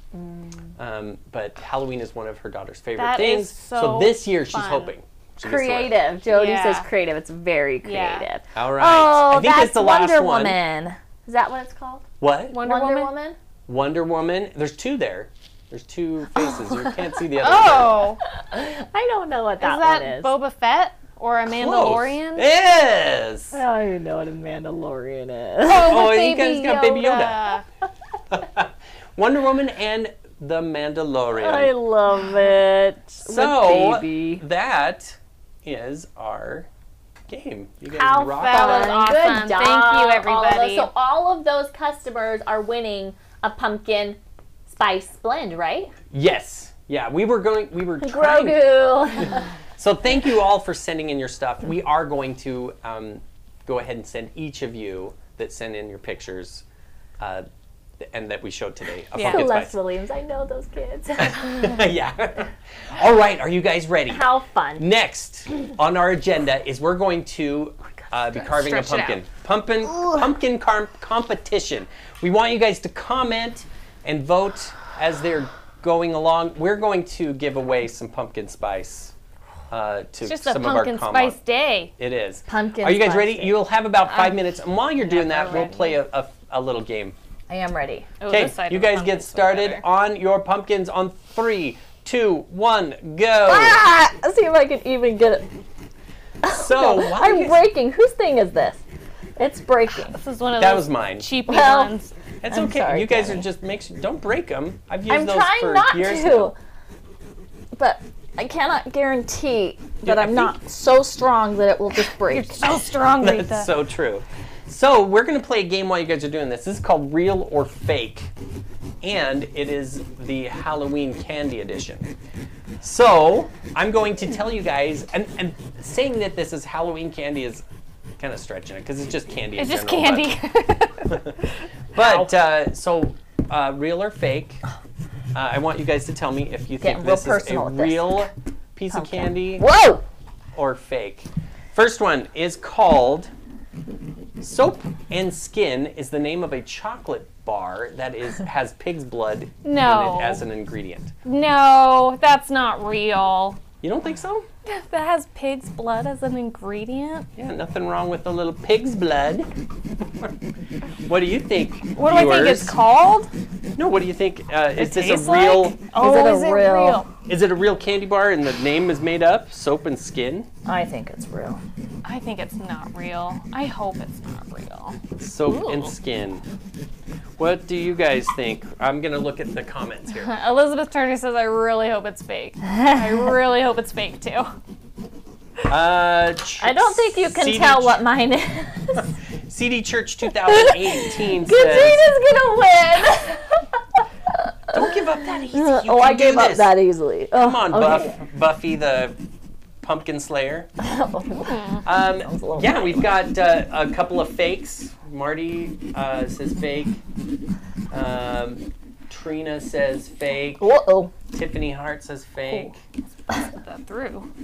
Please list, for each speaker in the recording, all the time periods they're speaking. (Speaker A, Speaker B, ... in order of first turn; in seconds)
Speaker A: 0.1-0.7, 5.4-13.4, 16.4-16.9, 18.4-20.4, 23.5-26.4, 31.4-34.4, 37.9-45.9, 48.0-49.5, 59.2-61.8, 64.1-64.9, 82.5-83.6, 87.5-88.1, 93.5-95.5, 96.4-98.8, 99.4-100.2, 101.5-101.9, 102.5-103.5, 105.1-106.5, 107.8-112.7, 136.8-138.3, 138.9-140.0, 165.9-167.1, 170.7-171.6, 186.6-189.1, 190.4-194.9, 195.5-198.2, 200.8-203.2, 210.6-211.1
Speaker B: 0.8-6.0, 8.6-10.6, 12.2-12.6, 13.7-18.1, 21.5-23.6, 25.7-27.6, 28.3-31.8, 33.2-36.7, 37.3-39.0, 46.1-48.9, 49.8-56.6, 57.2-57.5, 58.0-59.8, 61.2-79.1, 79.7-81.4, 82.0-87.2, 88.3-93.8, 96.4-97.7, 100.6-101.3, 102.4-106.5, 110.0-110.5, 113.1-118.3, 119.0-122.1, 122.8-127.6, 128.2-130.3, 131.1-131.4, 131.9-134.6, 135.3-139.7, 140.6-143.3, 144.4-151.1, 153.8-154.5, 157.4-159.5, 161.0-162.8, 163.8-165.8, 167.3-170.5, 175.2-176.4, 177.4-180.3, 185.7-188.0, 189.5-192.1, 194.7-196.7, 197.4-199.2, 199.8-200.7, 201.8-207.0, 207.9-210.7, 211.3-212.8
Speaker C: 3.0-4.9, 6.3-6.9, 7.8-8.3, 12.5-13.1, 17.4-18.2, 19.6-22.5, 25.6-27.6, 38.3-40.9, 59.1-59.5, 68.3-69.2, 80.2-81.9, 84.1-84.4, 85.0-86.0, 88.2-89.8, 100.1-102.1, 112.3-113.7, 129.6-131.5, 149.6-150.4, 151.2-153.6, 154.7-157.3, 162.0-163.3, 164.8-167.1, 172.0-175.9, 180.2-184.6, 201.5-201.8, 213.4-214.3